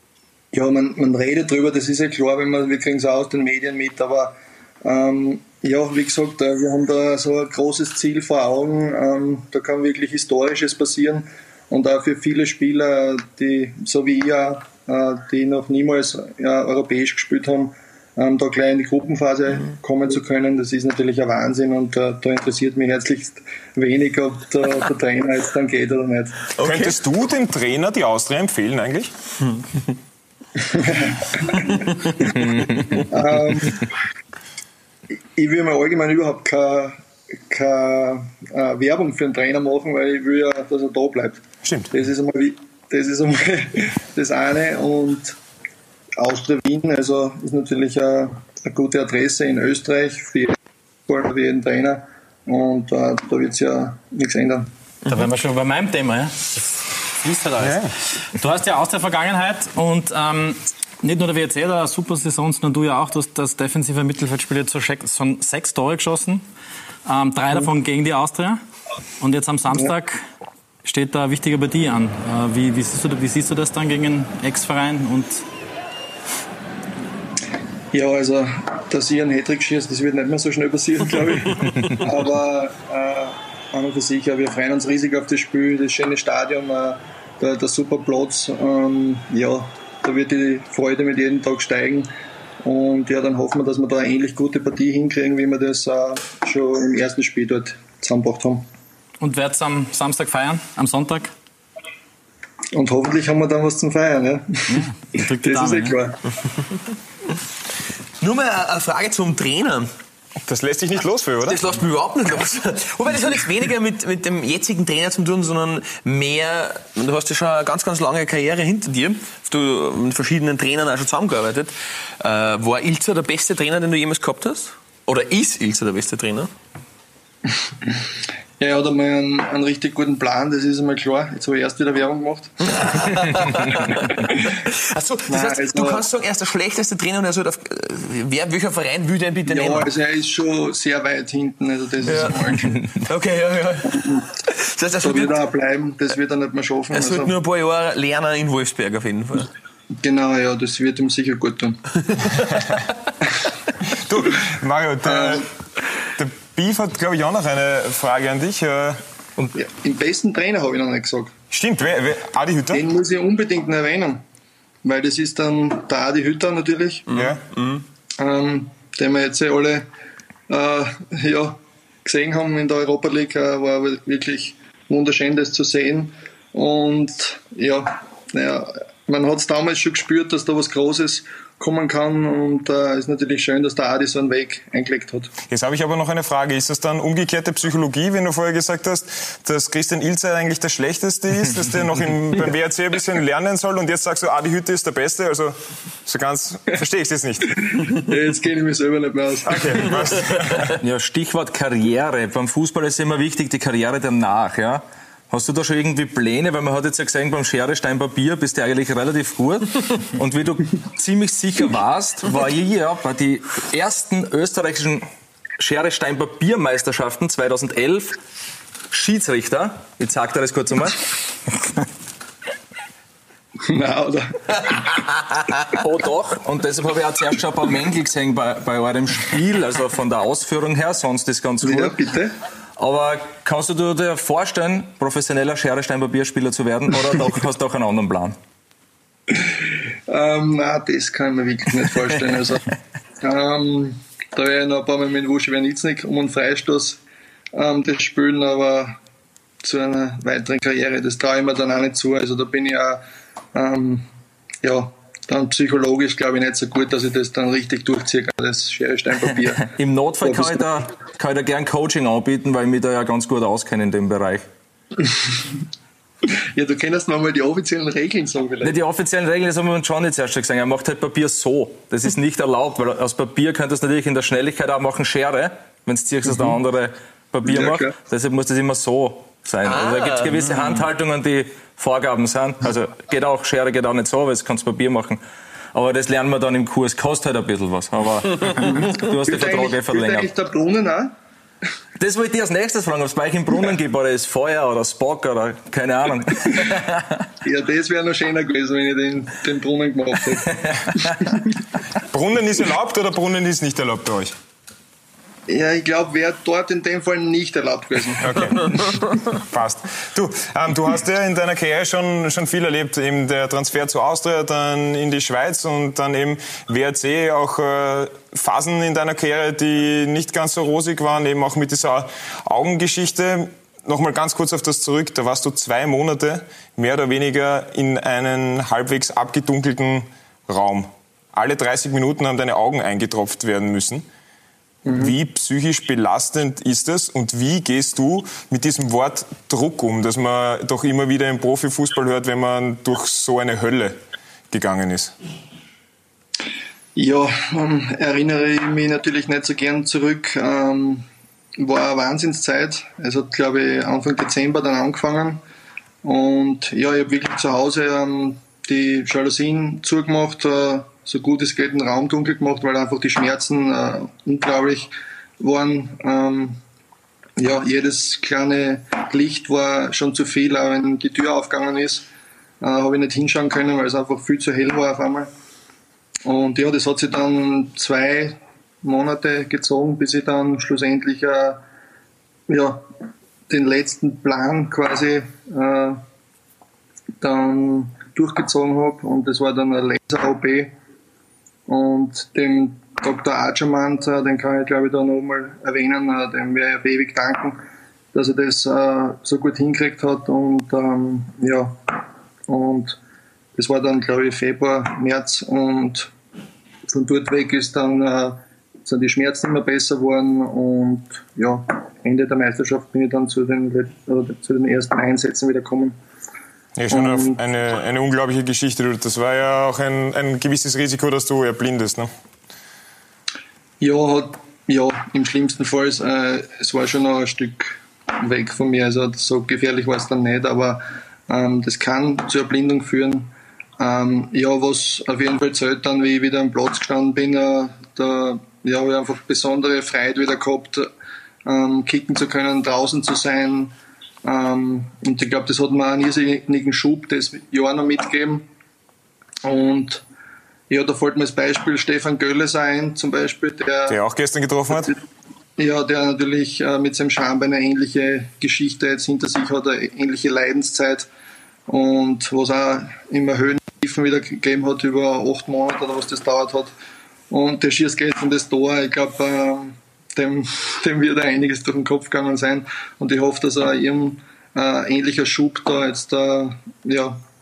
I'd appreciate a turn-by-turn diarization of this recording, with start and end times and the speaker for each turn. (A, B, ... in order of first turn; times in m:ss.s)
0:00.5-0:26.5 A
0:26.5-0:27.0 B
0:26.6-0:29.1 C
0:30.6-0:33.8 A
0:31.6-0:31.9 B
0:35.1-0:36.9 A
0:37.5-0:45.4 A
0:41.6-0:41.9 C
0:46.2-0:50.5 A
0:51.1-0:54.7 A
0:55.0-0:55.3 B
0:55.1-1:06.4 D
0:57.6-0:57.9 C
1:07.0-1:08.6 D
1:09.2-1:10.2 D
1:10.8-1:15.4 D
1:17.9-1:32.1 A
1:32.6-1:38.6 A
1:39.2-1:41.3 D
1:42.7-1:44.8 A
1:44.7-1:46.0 D
1:45.3-1:46.2 A
1:48.2-1:49.9 B
1:50.4-1:51.7 C
1:51.5-2:06.5 B
2:08.6-2:12.5 A
2:12.7-2:19.9 B
2:15.3-2:16.1 A
2:19.5-2:22.8 A
2:22.0-2:25.4 B
2:23.8-2:24.3 A
2:25.0-2:27.3 A
2:26.9-2:29.5 B
2:29.9-2:31.8 A
2:32.1-2:32.8 B
2:33.9-2:35.4 C
2:35.0-2:35.4 A
2:36.2-2:39.0 C
2:39.5-2:41.3 A
2:41.5-2:42.8 C
2:42.7-2:44.2 A
2:44.8-2:47.0 A
2:47.1-2:47.8 B
2:47.1-2:47.4 C
2:48.2-2:49.9 A
2:50.5-3:05.3 A
3:05.5-3:15.5 C
3:16.0-3:17.5 C
3:17.7-3:19.8 A
3:19.4-3:20.7 C
3:20.8-3:35.1 E
3:35.6-3:38.2 E
3:38.9-3:41.0 E
3:43.6-3:44.9 A
3:45.7-3:51.9 E
3:51.6-3:52.3 A
3:52.8-3:58.4 E
4:00.1-4:02.6 A
4:03.2-4:07.0 A
4:07.5-4:09.0 A
4:09.6-4:13.0 A
4:13.5-4:14.0 A
4:14.6-4:19.7 A
4:19.7-4:24.4 E
4:20.2-4:20.7 A
4:26.5-4:28.8 A
4:28.6-4:45.2 E
4:37.4-4:37.9 A
4:39.6-4:40.7 B
4:45.7-4:50.3 E
4:49.2-4:51.1 A
4:52.0-4:57.0 E
4:57.4-5:01.4 A
5:02.1-5:04.3 C
5:05.5-5:08.4 A
5:08.2-5:08.7 C
5:09.3-5:34.0 C
5:34.8-5:35.1 A
5:34.9-5:43.9 C
5:44.5-5:45.1 C
5:46.9-5:51.0 A
5:51.6-5:55.4 A
5:56.0-6:06.6 A
6:07.4-6:12.1 A
6:12.6-6:15.3 A
6:16.2-6:21.6 A
6:22.5-6:22.8 A
6:23.5-6:26.0 A
6:27.2-6:30.7 A
6:31.7-6:37.6 A
6:38.1-6:41.8 A
6:42.5-6:43.0 A
6:43.6-6:46.1 A
6:46.9-6:56.0 A
6:56.8-7:02.1 C
6:56.9-6:57.4 A
7:03.8-7:20.9 A
7:21.4-7:23.7 A
7:24.2-7:28.4 A
7:29.4-7:30.0 A
7:30.7-7:34.0 A
7:33.9-7:35.0 C
7:35.6-7:41.1 A
7:41.7-7:46.7 A
7:47.3-7:57.2 A